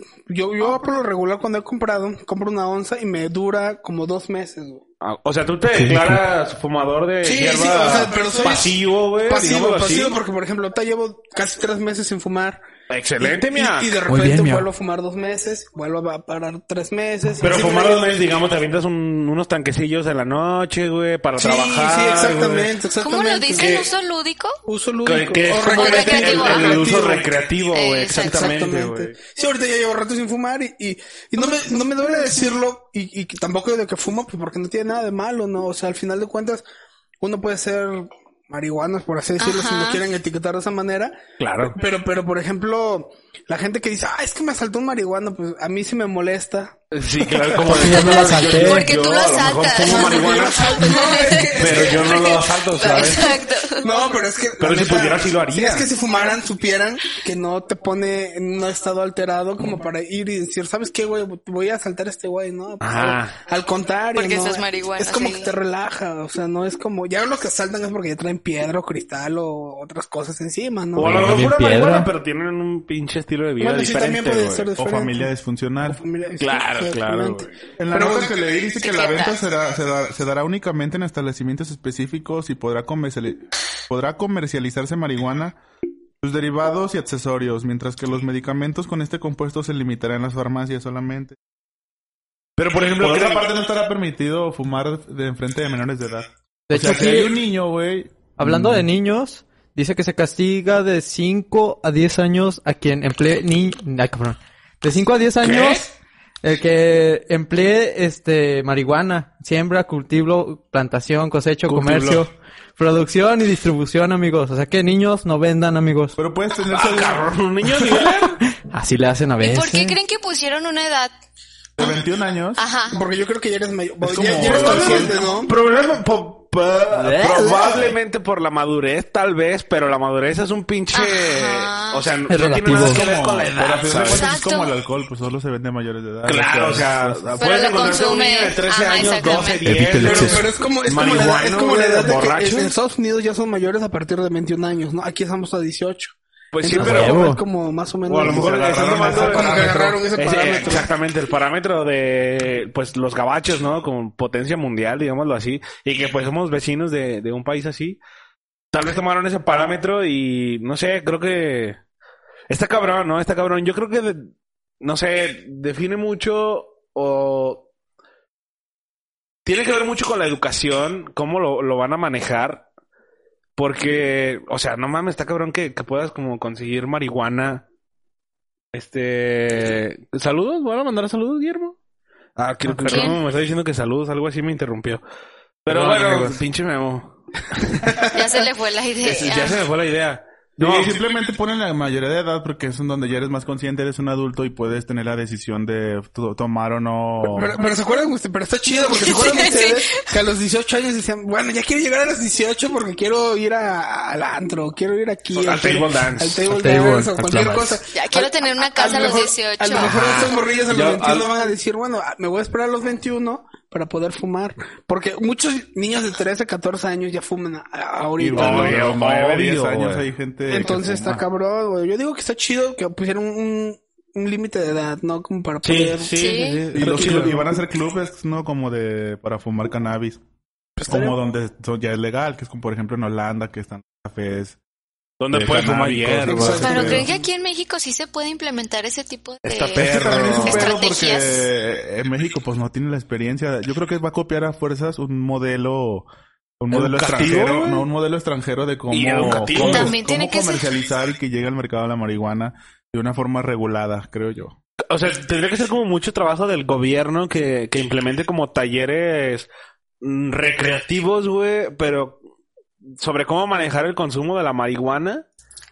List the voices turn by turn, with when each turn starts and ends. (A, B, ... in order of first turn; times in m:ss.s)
0:00.3-0:04.8 A
0:05.0-0:10.2 B
0:05.7-0:06.2 C
0:07.2-0:12.6 A
0:12.9-0:14.0 B
0:13.2-0:18.0 A
0:14.1-0:14.7 C
0:17.4-0:22.7 B
0:21.4-0:23.7 A
0:23.0-0:24.6 D
0:23.6-0:23.9 B
0:24.6-0:27.3 A
0:25.0-0:29.1 B
0:25.7-0:27.0 D
0:27.7-0:28.5 D
0:28.2-0:36.6 A
0:37.2-0:48.0 A
0:39.4-0:40.0 D
0:41.4-0:41.7 B
0:46.9-0:50.9 B
0:47.6-0:48.9 C
0:48.3-0:53.9 D
0:49.8-0:53.2 A
0:51.6-0:53.3 B
0:53.8-1:11.2 A
0:54.6-0:55.9 B
1:02.8-1:03.3 B
1:04.1-1:05.6 D
1:11.0-1:14.7 B
1:11.0-1:12.1 C
1:13.6-1:15.3 A
1:14.8-1:16.0 E
1:15.8-1:18.3 A
1:16.4-1:17.5 B
1:17.8-1:25.6 E
1:18.8-1:19.4 D
1:26.2-1:31.4 E
1:32.6-1:33.5 B
1:32.8-1:38.9 E
1:36.7-1:37.3 C
1:38.4-1:45.9 C
1:45.4-1:45.8 B
1:46.4-1:56.2 C
1:51.6-1:52.2 E
1:56.2-1:57.2 E
1:56.7-1:58.4 B
1:58.6-2:00.0 C
1:59.4-2:01.1 D
2:01.8-2:02.6 E
2:02.6-2:03.0 D
2:02.9-2:05.5 A
2:04.0-2:05.2 E
2:04.4-2:14.3 B
2:06.9-2:07.9 C
2:10.9-2:12.1 D
2:12.3-2:13.0 C
2:12.8-2:17.7 E
2:14.1-2:14.7 D
2:16.2-2:22.7 B
2:17.4-2:19.7 D
2:19.6-2:20.4 C
2:20.0-2:30.9 A
2:26.5-2:27.4 B
2:26.7-2:27.4 C
2:28.1-2:38.0 B
2:28.2-2:30.0 E
2:38.7-2:41.8 B
2:42.5-2:44.3 B
2:44.8-2:47.6 B
2:49.4-2:52.6 B
2:53.6-2:57.6 B
2:58.7-3:01.8 B
3:02.4-3:05.0 B
3:02.7-3:03.1 C
3:02.9-3:03.2 D
3:05.6-3:08.0 B
3:05.7-3:06.3 C
3:08.0-3:09.6 D
3:09.0-3:11.0 B
3:10.6-3:17.5 E
3:17.2-3:38.8 A
3:18.9-3:20.2 D
3:25.3-3:26.4 B
3:26.5-3:27.8 C
3:27.9-3:30.0 D
3:29.7-3:31.3 B
3:38.2-3:41.2 E
3:38.4-3:40.0 B
3:40.5-3:46.1 A
3:45.6-3:47.4 B
3:46.2-3:46.6 D
3:46.7-3:50.2 E
3:46.9-3:47.5 A
3:50.8-3:51.2 A
3:50.9-3:54.6 E
3:55.2-3:57.0 B
3:55.3-3:57.1 E
3:56.3-3:57.1 A
3:56.5-4:01.5 D
3:59.4-4:00.7 B
3:59.8-4:06.1 E
4:06.6-4:14.6 E
4:06.7-4:07.8 B
4:08.9-4:10.0 B
4:09.5-4:10.7 D
4:14.9-4:19.5 B
4:20.0-4:22.2 B
4:23.0-4:25.2 B